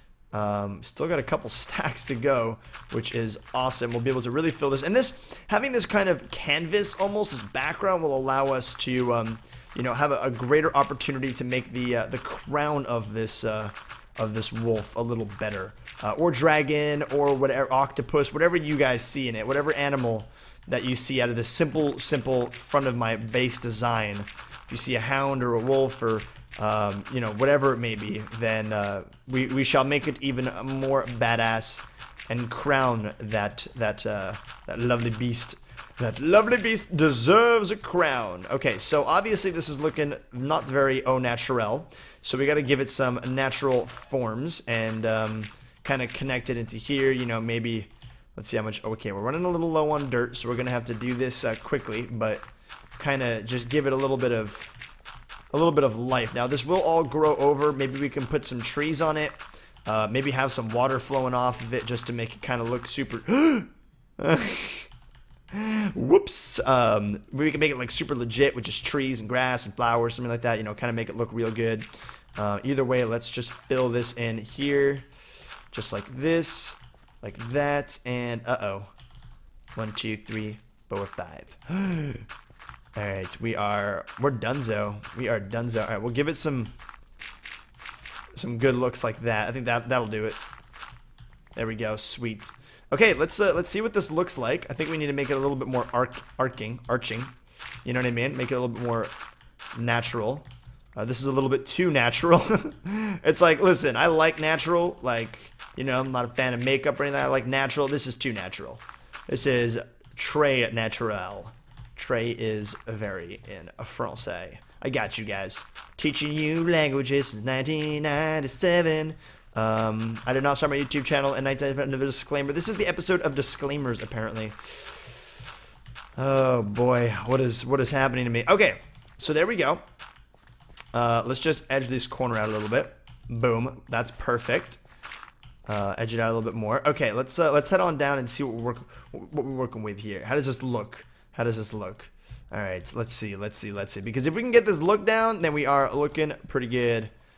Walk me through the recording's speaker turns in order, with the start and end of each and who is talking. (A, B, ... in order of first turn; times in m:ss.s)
0:00.3-0:52.4 A
0:53.0-0:54.7 A
0:55.5-1:04.9 A
1:05.5-1:15.1 A
1:15.7-1:18.9 A
1:19.8-1:22.2 A
1:22.9-1:26.7 A
1:28.4-1:30.4 A
1:31.6-1:37.3 A
1:37.8-1:39.1 A
1:39.7-2:05.2 A
2:06.2-2:09.8 A
2:10.9-2:14.8 A
2:15.7-2:27.1 A